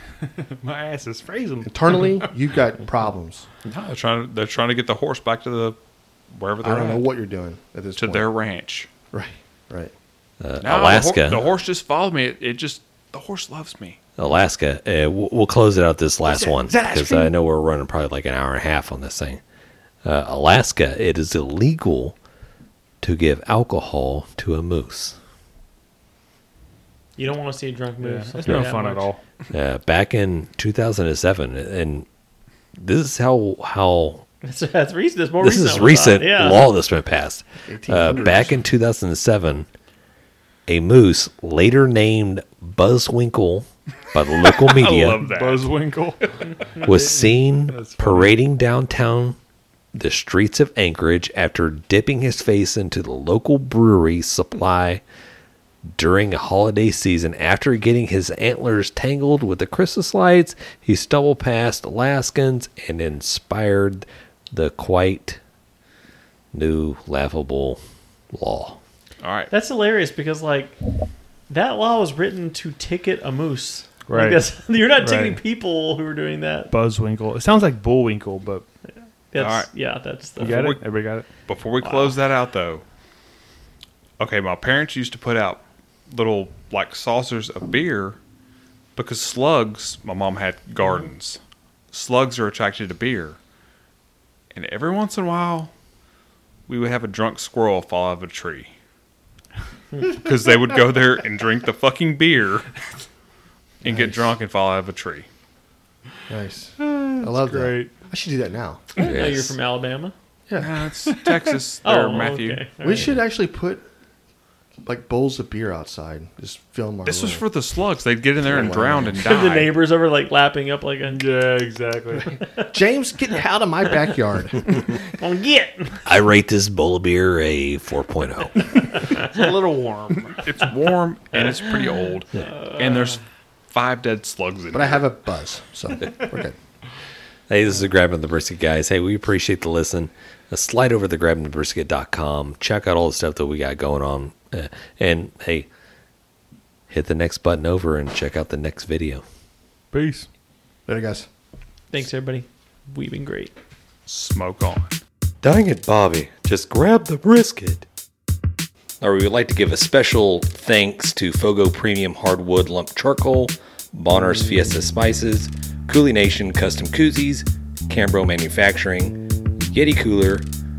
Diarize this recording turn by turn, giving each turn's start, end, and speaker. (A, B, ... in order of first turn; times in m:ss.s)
0:00.2-0:02.3 A
0:01.7-0:03.5 B
0:03.6-0:05.8 C
0:06.3-0:07.1 C
0:06.6-0:08.3 B
0:08.0-0:08.9 C
0:09.1-0:09.9 B
0:10.4-0:11.5 D
0:10.6-0:14.0 C
0:14.2-0:19.4 D
0:16.2-0:17.3 B
0:20.0-0:22.2 D
0:23.0-0:25.2 D
0:27.2-0:29.1 E
0:28.0-0:29.2 A
0:29.5-0:32.1 D
0:32.8-0:34.2 D
0:34.4-0:36.7 E
0:35.4-0:39.7 D
0:37.7-0:38.6 B
0:40.7-0:45.2 D
0:44.5-0:45.6 C
0:45.2-0:47.2 A
0:46.8-0:49.4 D
0:47.7-0:48.4 A
0:49.9-0:55.0 D
0:55.9-1:05.4 D
1:06.5-1:07.8 D
1:08.3-1:08.8 D
1:09.2-1:09.5 C
1:09.5-1:10.8 E
1:11.5-1:16.7 E
1:14.1-1:15.4 A
1:16.7-1:18.6 A
1:18.9-1:20.7 E
1:19.4-1:19.7 C
1:20.4-1:21.3 A
1:20.4-1:22.8 C
1:21.8-1:22.2 E
1:24.2-1:28.2 C
1:29.0-1:31.4 C
1:31.9-1:33.4 C
1:34.5-1:35.7 C
1:36.7-1:38.7 C
1:40.0-1:42.7 C
1:43.8-1:45.3 C
1:43.8-1:44.3 B
1:46.3-1:48.9 B
1:46.8-1:48.0 A
1:49.0-1:50.1 E
1:49.0-1:49.6 D
1:50.6-1:52.6 C
1:51.1-1:51.4 A
1:51.8-1:53.2 E
1:52.8-1:53.8 B
1:54.8-1:57.4 B
1:57.0-1:59.7 C
1:58.4-1:59.2 B
1:59.2-2:01.2 E
2:01.1-2:02.4 A
2:02.4-2:02.7 E
2:02.7-2:04.9 B
2:05.0-2:06.0 E
2:06.1-2:08.8 D
2:09.1-2:10.4 A
2:09.1-2:09.4 E
2:10.4-2:15.0 C
2:12.4-2:13.2 E
2:14.7-2:16.6 B
2:17.5-2:25.7 D
2:26.9-2:29.2 D
2:29.9-2:30.3 A
2:30.9-2:31.3 B
2:31.9-2:33.5 E
2:34.1-2:35.0 C
2:35.4-2:37.8 D
2:39.0-2:50.5 D